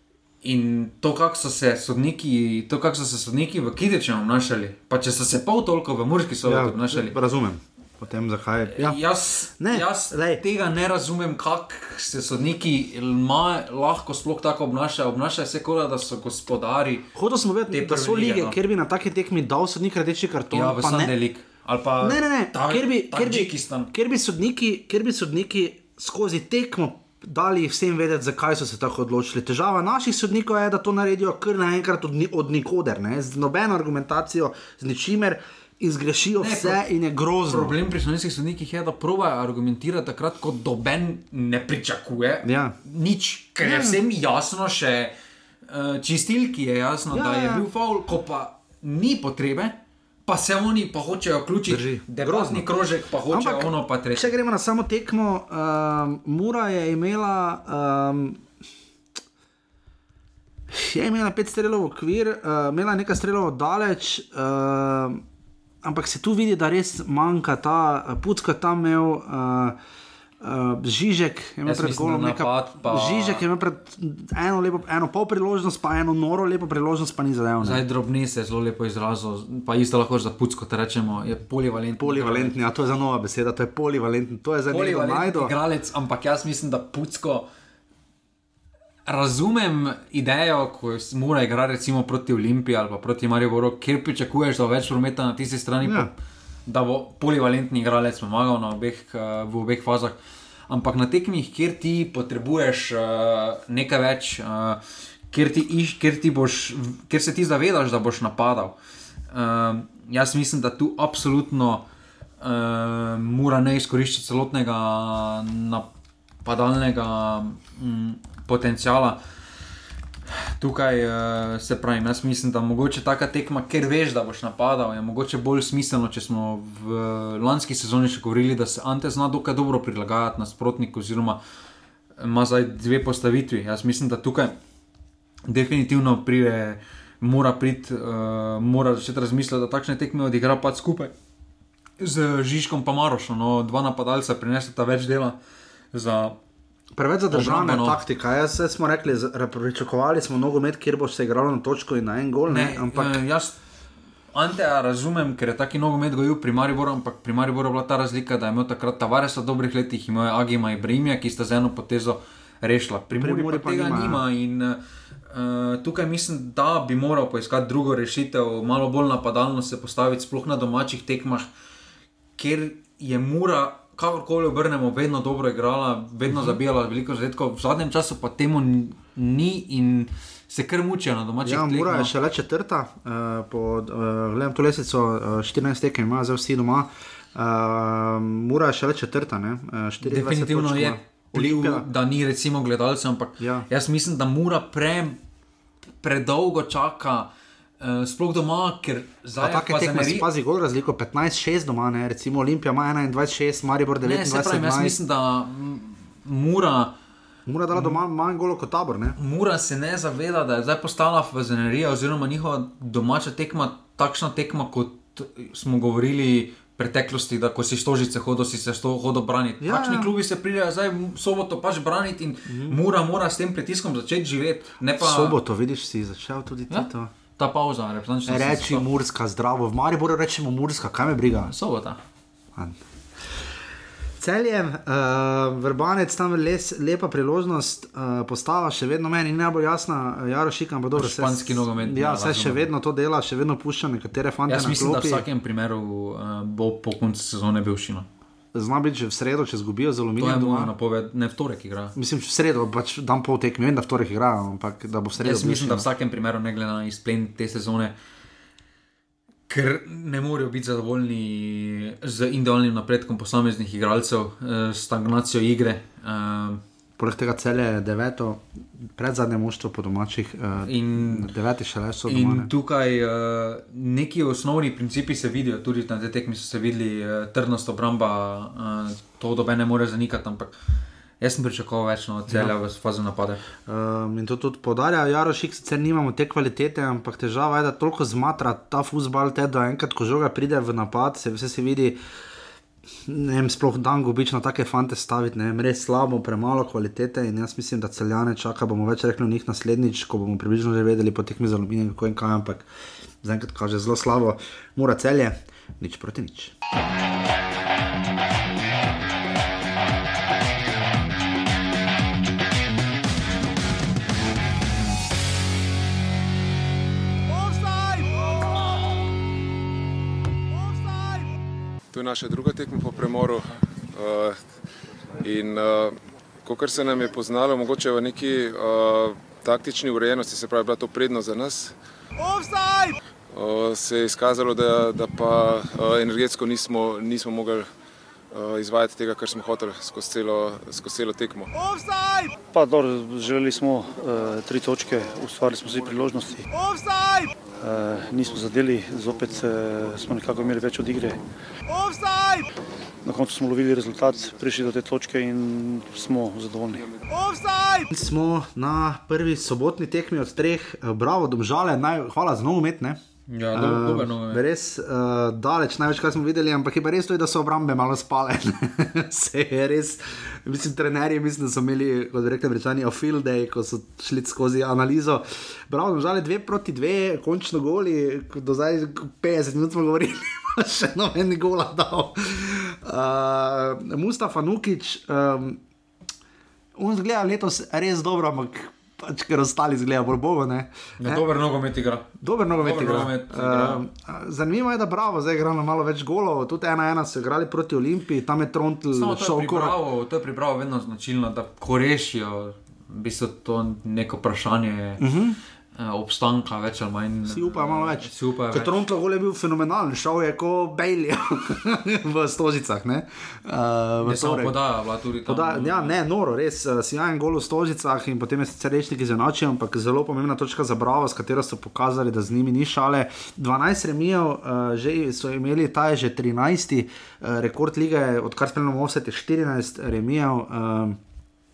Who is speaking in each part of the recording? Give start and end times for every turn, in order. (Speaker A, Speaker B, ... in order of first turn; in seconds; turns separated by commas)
Speaker A: 0.4-7.2, Speaker B: 6.4-9.0, Speaker A: 8.7-17.1, Speaker B: 9.6-10.4, Speaker B: 17.1-21.1, Speaker A: 17.7-18.6, Speaker A: 20.5-23.9, Speaker B: 22.0-37.7, Speaker A: 36.4-36.8, Speaker A: 37.5-45.1, Speaker B: 42.4-42.8, Speaker B: 43.6-44.0, Speaker A: 45.7-54.3, Speaker B: 47.1-47.7, Speaker B: 51.7-52.7, Speaker B: 53.3-58.4, Speaker B: 60.7-65.2, Speaker B: 65.8-69.8, Speaker B: 70.4-77.8, Speaker A: 71.6-73.4, Speaker A: 77.6-82.5, Speaker B: 82.0-85.5, Speaker A: 84.7-87.5, Speaker A: 89.0-96.1, Speaker B: 95.8-96.1, Speaker A: 96.7-100.2, Speaker A: 100.7-108.8, Speaker A: 109.3-111.8, Speaker A: 112.4-115.9, Speaker A: 116.4-119.2, Speaker A: 120.3-131.4, Speaker A: 132.2-134.5, Speaker A: 135.5-141.1, Speaker A: 142.0-145.4, Speaker A: 145.9-146.4, Speaker B: 146.9-153.2, Speaker A: 147.3-148.0, Speaker A: 152.5-153.6, Speaker A: 154.3-171.5, Speaker B: 163.2-164.2, Speaker A: 172.4-182.1, Speaker B: 176.3-176.6, Speaker B: 181.4-191.8, Speaker A: 190.0-195.2, Speaker B: 193.4-193.7, Speaker A: 196.0-200.3, Speaker B: 199.4-204.9, Speaker A: 204.0-206.9, Speaker B: 207.4-209.2, Speaker A: 207.7-208.0, Speaker A: 209.2-225.4, Speaker B: 219.6-220.1, Speaker B: 222.5-222.8, Speaker B: 225.0-227.1, Speaker A: 226.7-228.9, Speaker B: 228.3-231.5, Speaker A: 231.4-232.0, Speaker B: 234.2-245.2, Speaker A: 240.9-242.7, Speaker A: 244.5-248.1, Speaker B: 248.5-250.7, Speaker A: 250.2-251.9, Speaker B: 251.9-255.9, Speaker A: 255.2-257.9, Speaker A: 259.5-266.6, Speaker B: 267.0-268.4, Speaker B: 268.9-272.5, Speaker A: 270.6-271.3, Speaker A: 272.1-280.6, Speaker A: 281.2-283.4, Speaker B: 283.6-292.0, Speaker B: 293.1-302.7, Speaker B: 303.2-306.5, Speaker C: 321.9-324.4, Speaker C: 325.2-331.8, Speaker C: 333.3-337.7, Speaker C: 338.3-341.5, Speaker D: 342.5-346.4, Speaker D: 347.6-351.2, Speaker D: 353.0-356.8, Speaker B: 357.9-363.0, Speaker A: 363.3-364.4, Speaker B: 363.5-385.6, Speaker B: 386.8-391.2, Speaker A: 391.0-393.8, Speaker B: 392.2-399.8, Speaker A: 398.9-405.0, Speaker B: 405.0-405.4, Speaker A: 405.8-408.8, Speaker B: 407.3-414.6, Speaker A: 414.0-416.0, Speaker B: 415.2-431.0